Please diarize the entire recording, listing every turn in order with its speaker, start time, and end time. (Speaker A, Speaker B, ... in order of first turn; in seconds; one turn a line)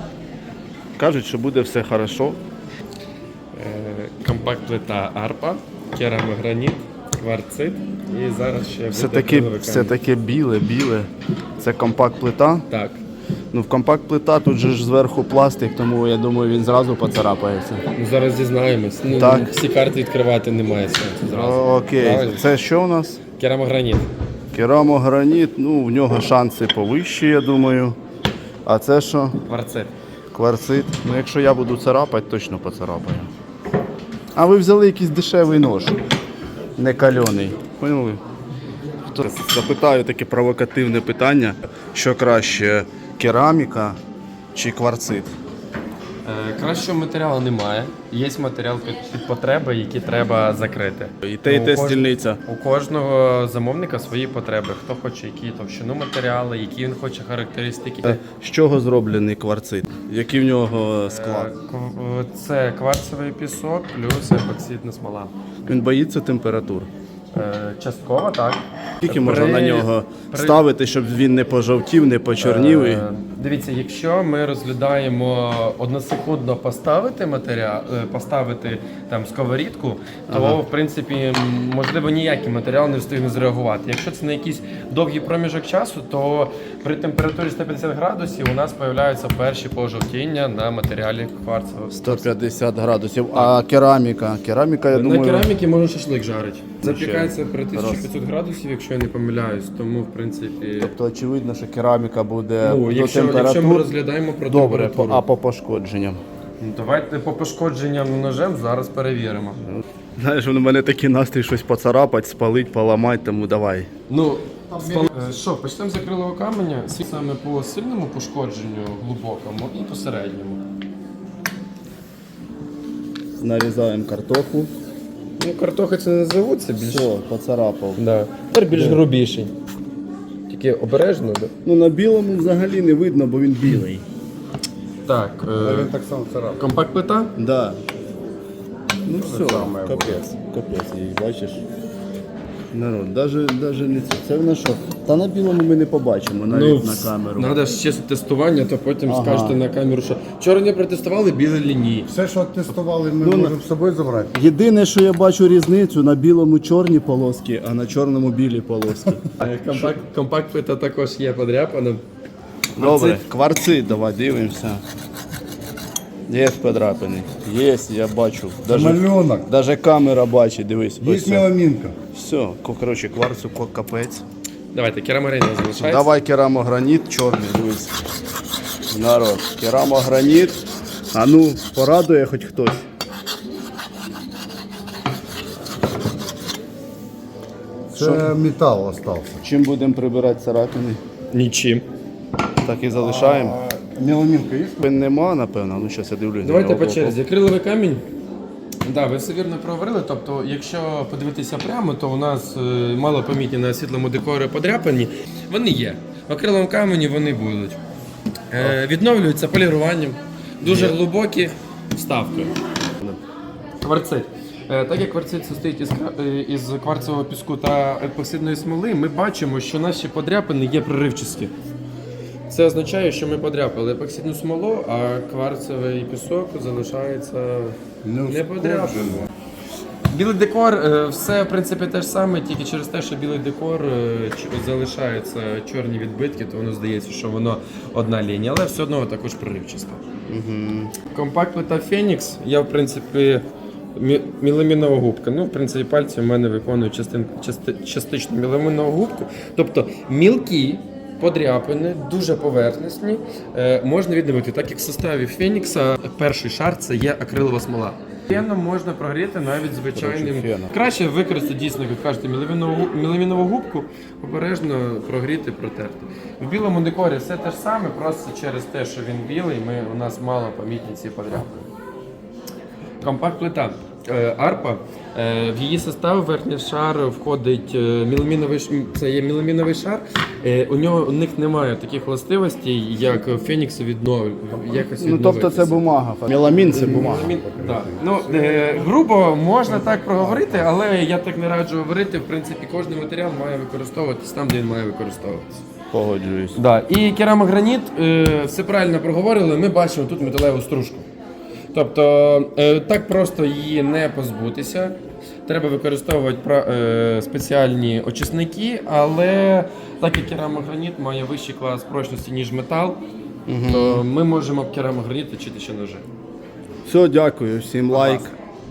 Speaker A: 1.0-2.4
Speaker B: 3.5-9.9
Speaker A: 8.9-11.1
Speaker A: 11.6-12.7
Speaker B: 12.7-13.0
Speaker A: 13.5-17.9
Speaker B: 17.9-22.4
Speaker A: 19.1-19.5
Speaker A: 21.2-23.2
Speaker B: 23.4-24.1
Speaker A: 24.5-28.0
Speaker A: 28.6-29.4
Speaker B: 29.5-29.9
Speaker A: 30.3-33.3
Speaker A: 34.4-36.0
Speaker A: 36.8-38.2
Speaker A: 39.1-44.0
Speaker A: 44.5-45.3
Speaker B: 46.2-58.2
Speaker A: 51.2-52.4
Speaker A: 58.0-61.5
Speaker B: 61.0-65.3
Speaker A: 65.7-66.9
Speaker B: 67.3-70.6
Speaker A: 69.0-73.0
Speaker B: 72.4-92.3
Speaker A: 80.3-80.6
Speaker A: 91.9-95.5
Speaker B: 94.9-100.9
Speaker A: 96.8-98.1
Speaker A: 100.8-103.9
Speaker B: 102.6-105.2
Speaker A: 104.5-106.2
Speaker B: 106.6-109.6
Speaker A: 109.7-113.9
Speaker B: 114.1-120.6
Speaker A: 123.4-124.7
Speaker B: 125.4-127.1
Speaker A: 126.8-128.0
Speaker B: 128.0-129.5
Speaker A: 128.7-129.0
Speaker B: 130.5-131.5
Speaker A: 131.6-134.0
Speaker B: 135.1-135.9
Speaker C: 135.6-136.6
Speaker B: 136.5-137.3
Speaker A: 137.4-137.8
Speaker A: 139.1-141.6
Speaker C: 139.1-140.2
Speaker A: 142.7-147.6
Speaker B: 146.5-152.1
Speaker A: 149.0-149.6
Speaker C: 152.1-154.3
Speaker A: 153.2-153.6
Speaker A: 154.3-159.9
Speaker B: 159.4-162.0
Speaker A: 162.8-164.8
Speaker B: 162.8-163.2
Speaker A: 166.3-171.5
Speaker C: 168.7-169.5
Speaker C: 171.0-171.9
Speaker A: 172.1-174.2
Speaker B: 174.7-176.1
Speaker A: 175.6-177.9
Speaker A: 178.9-182.8
Speaker C: 187.9-189.4
Speaker A: 187.9-188.4
Speaker A: 189.4-191.0
Speaker B: 191.3-191.8
Speaker A: 192.6-193.6
Speaker C: 192.9-194.8
Speaker A: 194.8-197.2
Speaker B: 196.4-198.0
Speaker B: 198.8-207.8
Speaker B: 208.5-212.5
Speaker A: 210.6-211.0
Speaker B: 213.8-221.5
Speaker B: 222.5-229.3
Speaker C: 228.0-229.3
Speaker B: 230.1-240.0
Speaker A: 240.3-240.9
Speaker B: 241.1-271.7
Speaker A: 259.9-260.7
Speaker B: 273.0-285.8
Speaker A: 285.0-287.4
Speaker B: 286.6-295.6
Speaker C: 286.7-288.9
Speaker C: 289.9-290.6
Speaker A: 295.9-296.6
Speaker B: 296.5-301.1
Speaker B: 301.7-313.0
Speaker A: 313.5-314.0
Speaker B: 313.6-316.0
Speaker A: 316.9-318.3
Speaker B: 317.9-318.2